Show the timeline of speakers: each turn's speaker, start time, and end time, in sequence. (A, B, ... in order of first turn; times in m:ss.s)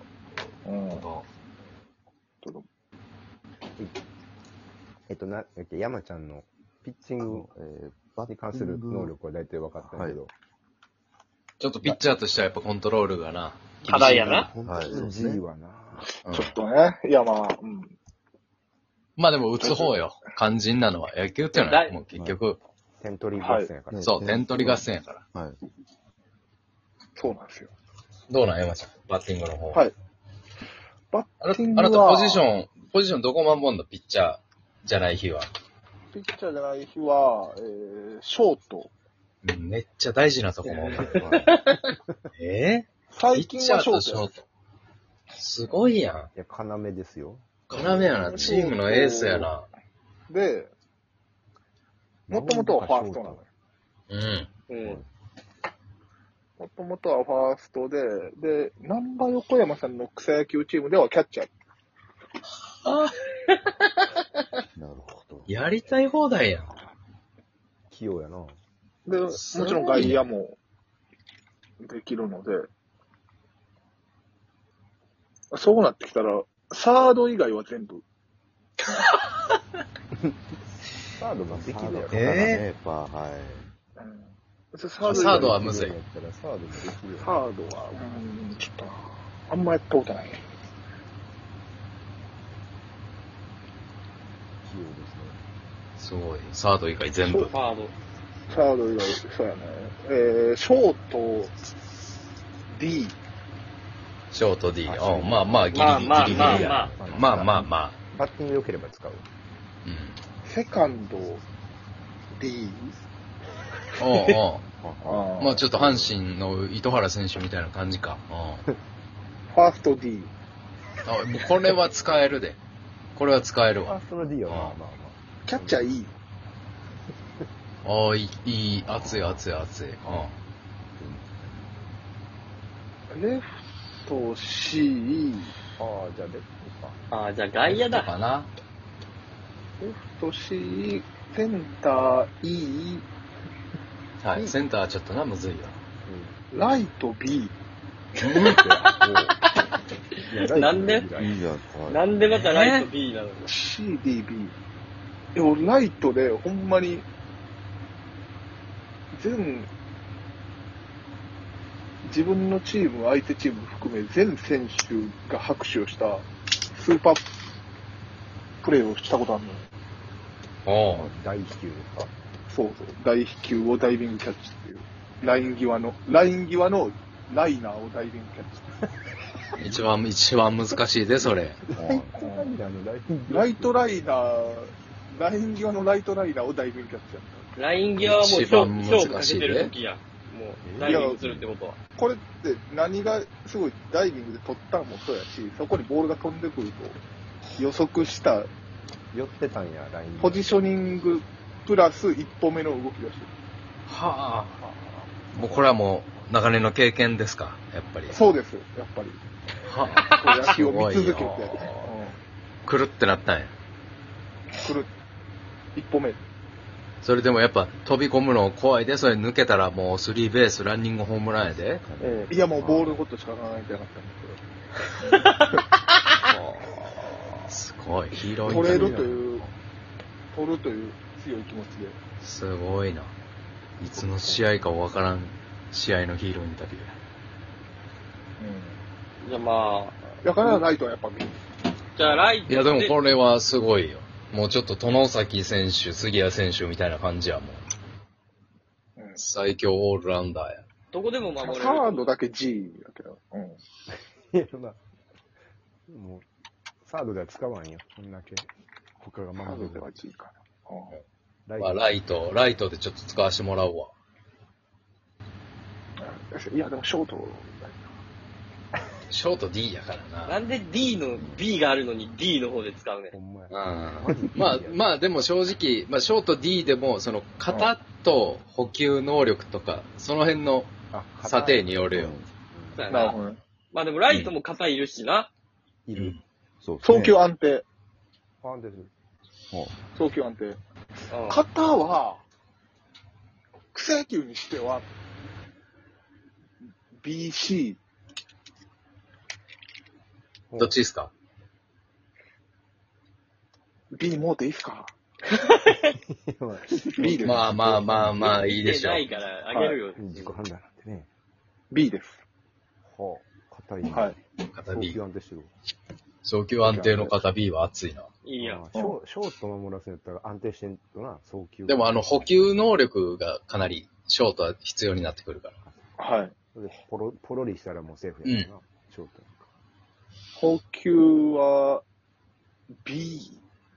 0:00.6-0:01.0 A
0:00.9-0:01.2 B
0:05.1-0:07.5 C
0:07.2-0:09.1 B
0:08.2-0:10.3 C
0:09.7-0:10.2 B
0:11.6-0:14.5 D
0:13.8-0:14.5 E
0:13.9-0:15.4 B
0:14.6-0:16.1 C
0:16.0-0:17.9 A
0:16.2-0:16.5 D
0:19.2-0:22.6 D
0:19.6-0:20.0 A
0:21.5-0:22.0 E
0:22.1-0:22.4 B
0:23.0-0:24.2 C
0:23.4-0:23.7 A
0:23.9-0:25.6 B
0:24.0-0:25.2 D
0:27.2-0:27.7 A
0:28.3-0:29.8 D
0:31.1-0:32.5 A
0:31.4-0:35.5 D
0:36.1-0:38.9 A
0:39.4-0:41.2 D
0:40.6-0:41.6 E
0:41.0-0:41.5 B
0:42.4-0:44.4 D
0:43.1-0:44.3 A
0:45.3-0:46.3 D
0:46.3-0:47.7 C
0:47.7-0:49.7 D
0:48.1-0:49.5 A
0:50.3-0:50.7 A
0:52.3-0:53.5 C
0:52.3-0:53.4 A
0:54.1-0:54.5 D
0:54.7-0:55.0 E
0:56.6-1:01.5 A
1:02.8-1:03.1 D
1:04.8-1:05.5 B
1:05.5-1:06.7 D
1:07.9-1:08.6 C
1:09.0-1:10.6 A
1:09.3-1:10.2 D
1:11.8-1:12.6 A
1:15.5-1:18.0 A
1:21.2-1:22.5 C
1:21.5-1:23.7 B
1:22.1-1:22.6 D
1:24.0-1:25.6 A
1:25.0-1:27.4 C
1:25.0-1:26.0 D
1:27.2-1:30.4 A
1:34.6-1:35.4 C
1:36.0-1:37.5 D
1:37.2-1:37.5 A
1:37.5-1:37.9 E
1:38.5-1:41.5 A
1:42.7-1:43.2 A
1:44.3-1:48.0 D
1:44.8-1:49.2 C
1:45.7-1:46.9 E
1:49.8-1:50.2 D
1:50.4-1:51.4 A
1:52.4-1:53.0 A
1:54.0-1:54.6 D
1:54.8-1:56.1 B
1:55.0-1:55.6 A
1:55.4-1:58.6 D
1:59.5-2:00.3 A
2:01.0-2:02.6 D
2:03.1-2:04.8 D
2:03.8-2:06.0 C
2:05.4-2:06.1 A
2:07.8-2:10.3 D
2:13.1-2:15.5 A
2:15.8-2:17.0 C
2:17.1-2:18.1 E
2:17.6-2:18.5 D
2:19.8-2:23.1 A
2:24.2-2:25.8 D
2:26.0-2:26.4 C
2:26.5-2:27.5 A
2:28.2-2:28.6 D
2:28.4-2:29.4 C
2:30.2-2:31.4 C
2:30.5-2:31.1 E
2:31.1-2:32.0 B
2:31.9-2:33.5 E
2:32.3-2:32.9 D
2:33.5-2:34.5 A
2:35.3-2:37.0 A
2:39.1-2:39.7 A
2:42.0-2:47.2 A
2:48.6-2:49.6 A
2:50.6-2:51.1 D
2:50.9-2:52.1 C
2:52.5-2:58.7 A
2:59.6-3:01.6 D
3:01.2-3:04.1 C
3:01.7-3:02.1 B
3:02.2-3:02.5 A
3:03.3-3:07.5 A
3:07.6-3:11.8 E
3:08.0-3:09.7 D
3:10.6-3:11.2 C
3:10.8-3:11.2 A
3:12.0-3:17.0 A
3:17.6-3:18.5 A
3:19.1-3:20.5 C
3:20.2-3:23.3 A
3:23.9-3:24.6 D
3:24.6-3:25.1 A
3:25.3-3:28.2 D
3:28.1-3:29.2 A
3:29.6-3:31.9 D
3:30.1-3:32.2 A
3:32.6-3:33.5 D
3:34.6-3:34.9 A
3:35.7-3:36.2 A
3:37.0-3:41.8 D
3:41.8-3:43.0 B
3:42.0-3:44.4 A
3:45.0-3:45.3 A
3:46.6-3:47.1 B
3:47.5-3:49.0 D
3:48.4-3:49.5 C
3:48.4-3:49.4 A
3:50.3-3:52.0 A
3:52.2-3:53.1 D
3:53.8-3:57.0 D
3:53.9-3:54.5 C
3:58.4-3:58.8 A
3:59.2-4:00.0 E
4:00.2-4:01.4 A
4:01.9-4:03.0 E
4:02.0-4:07.6 D
4:09.0-4:09.2 A
4:09.2-4:10.6 D
4:10.9-4:12.1 E
4:11.4-4:13.6 A
4:13.9-4:14.8 C
4:15.9-4:16.2 C
4:16.8-4:18.5 C
4:19.0-4:19.9 C
4:19.4-4:20.9 A
4:21.5-4:22.0 C
4:21.6-4:23.9 D
4:26.0-4:27.9 A
4:29.1-4:30.4 D
4:30.2-4:33.1 E
4:33.1-4:34.8 C
4:33.5-4:42.1 D
4:40.9-4:41.9 C
4:41.9-4:42.3 B
4:42.4-4:42.8 C
4:42.7-4:43.2 E
4:42.9-4:43.4 A
4:43.7-4:45.3 E
4:45.8-4:46.2 C
4:45.9-4:46.2 D
4:46.6-4:47.1 B
4:46.8-4:47.6 A
4:48.4-4:48.9 C
4:49.5-4:49.8 B
4:49.9-4:50.6 A
4:51.1-4:51.4 E
4:51.3-4:52.2 A
4:53.7-4:54.8 A
4:57.0-4:57.8 A
5:00.5-5:00.8 C
5:00.6-5:01.1 D
5:03.9-5:04.9 A
5:05.9-5:08.6 C
5:07.0-5:07.5 A
5:07.2-5:09.1 D
5:08.5-5:10.4 E
5:09.5-5:09.8 A
5:09.9-5:11.1 C
5:11.7-5:12.2 A
5:12.8-5:14.2 C
5:13.9-5:14.2 A
5:14.5-5:15.0 D
5:14.7-5:15.5 C
5:16.2-5:18.1 D
5:16.6-5:17.2 A
5:18.2-5:18.6 E
5:18.4-5:22.5 C
5:21.6-5:25.6 D
5:26.0-5:26.3 A
5:26.5-5:29.5 C
5:28.2-5:28.5 D
5:30.4-5:31.8 A
5:32.8-5:33.4 A